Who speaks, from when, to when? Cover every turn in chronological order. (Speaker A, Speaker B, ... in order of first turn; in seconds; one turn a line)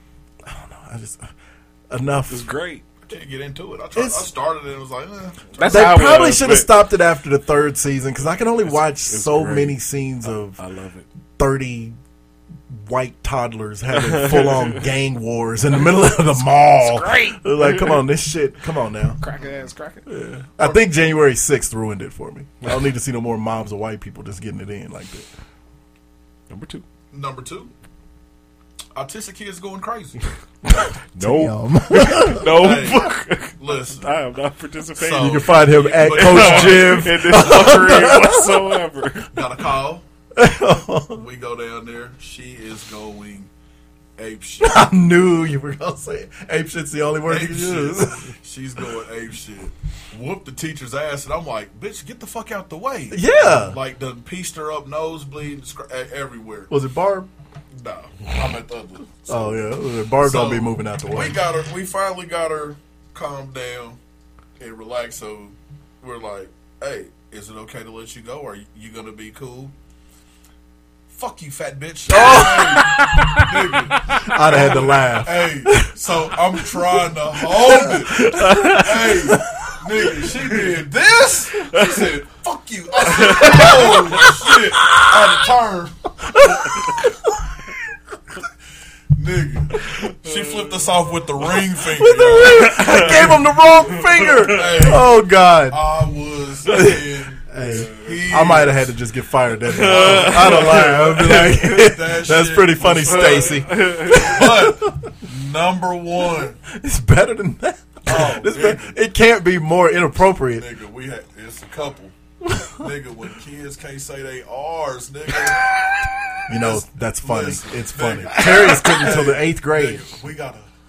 Speaker A: 0.4-1.3
Speaker A: 1.9-2.5
Speaker B: 2.3-2.8
Speaker C: 3.1-5.9
Speaker A: 4.0-4.3
Speaker B: 5.5-6.8
Speaker A: 5.6-10.6
Speaker B: 8.6-11.1
Speaker A: 11.4-12.0
Speaker A: 12.7-19.2
Speaker B: 13.9-14.8
Speaker B: 16.8-18.0
Speaker B: 19.2-20.1
Speaker A: 20.1-25.3
Speaker B: 26.5-26.8
Speaker C: 27.1-27.7
Speaker C: 28.9-30.2
Speaker A: 30.6-32.5
Speaker B: 31.1-39.3
Speaker C: 32.4-34.1
Speaker C: 35.0-37.1
Speaker A: 35.2-38.8
Speaker C: 39.3-40.0
Speaker A: 40.4-41.2
Speaker C: 41.1-43.5
Speaker C: 44.2-44.9
Speaker A: 44.6-48.3
Speaker C: 47.3-56.7
Speaker A: 53.1-53.8
Speaker A: 56.7-57.3
Speaker C: 57.7-59.6
Speaker A: 59.3-61.4
Speaker C: 60.2-64.0
Speaker C: 64.6-69.7
Speaker C: 71.1-86.0
Speaker A: 72.1-73.5
Speaker B: 72.2-73.4
Speaker A: 74.1-80.3
Speaker B: 78.2-78.9
Speaker B: 83.1-84.3
Speaker A: 83.2-85.2
Speaker A: 86.2-87.2
Speaker C: 89.1-93.2
Speaker B: 90.0-90.9
Speaker A: 91.9-95.8
Speaker B: 92.5-94.7
Speaker C: 94.4-95.1
Speaker C: 95.7-98.9
Speaker A: 96.7-105.1
Speaker B: 97.6-98.3
Speaker B: 99.7-101.6
Speaker C: 99.8-106.6
Speaker B: 103.1-104.4
Speaker A: 106.7-110.7
Speaker C: 108.1-109.0
Speaker C: 110.5-112.1
Speaker A: 112.4-112.7
Speaker C: 112.8-115.7
Speaker A: 116.5-120.0
Speaker C: 116.5-120.7